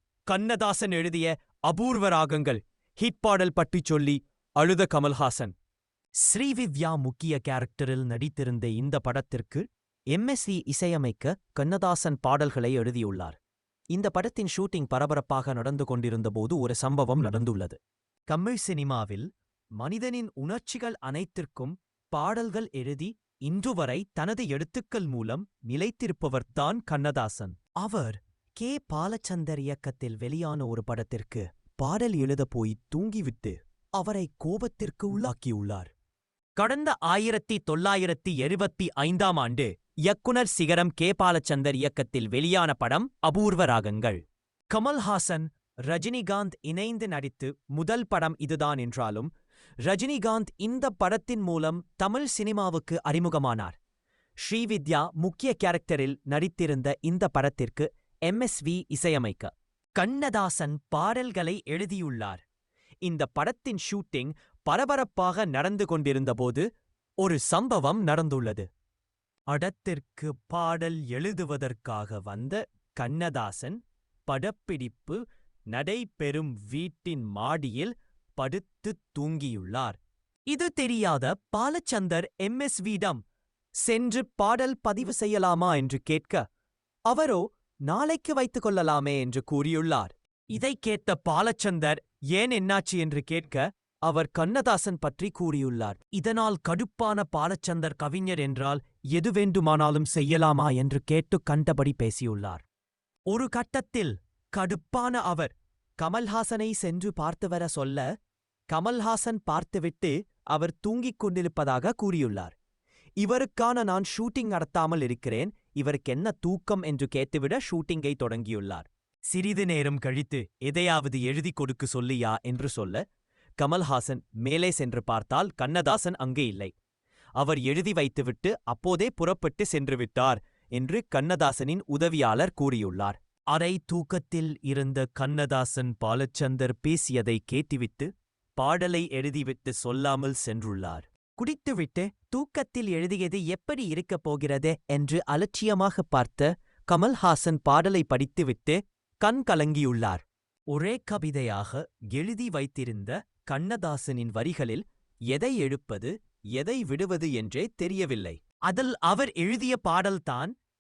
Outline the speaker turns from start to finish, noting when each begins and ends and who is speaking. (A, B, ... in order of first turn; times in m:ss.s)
0:00.3-0:05.5 A
0:06.2-0:13.4 A
0:13.9-0:17.8 A
0:18.3-0:19.3 A
0:19.8-0:35.9 A
0:36.6-0:44.2 A
0:44.7-0:49.3 A
0:49.9-0:53.8 A
0:54.4-1:02.4 A
1:03.0-1:06.6 A
1:07.2-1:08.7 A
1:09.5-1:23.2 A
1:23.8-1:26.4 A
1:27.1-1:42.6 A
1:43.3-1:48.0 A
1:48.7-1:52.6 A
1:53.2-2:03.0 A
2:03.6-2:06.7 A
2:07.4-2:40.5 A